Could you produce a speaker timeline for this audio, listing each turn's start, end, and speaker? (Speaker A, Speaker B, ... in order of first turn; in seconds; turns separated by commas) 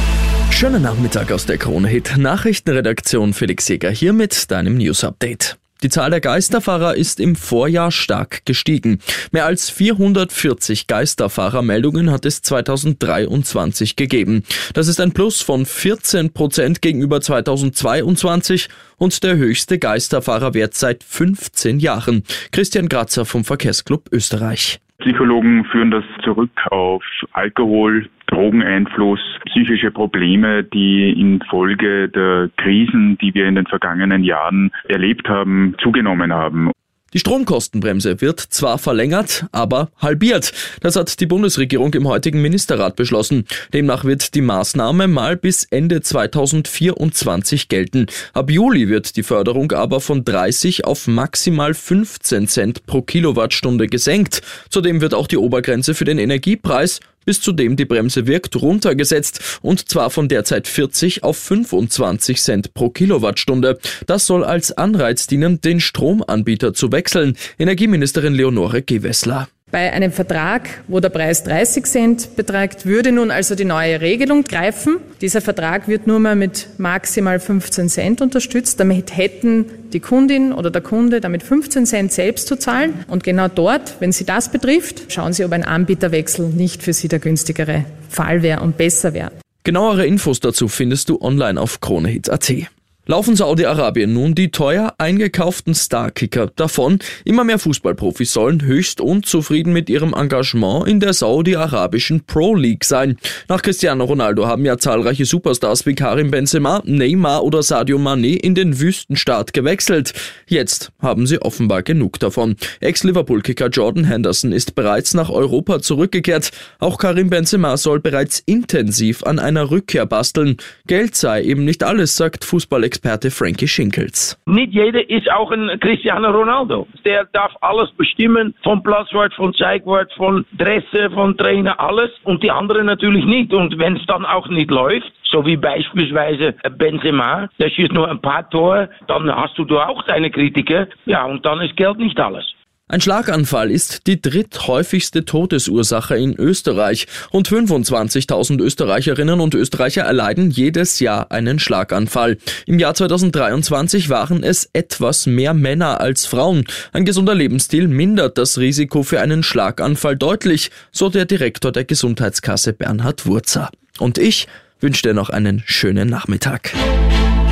Speaker A: 0.5-24.8, Speaker B: 25.0-36.7, Speaker A: 37.1-69.5, Speaker C: 69.7-89.3, Speaker A: 89.7-124.4, Speaker D: 124.5-142.5, Speaker A: 142.9-166.8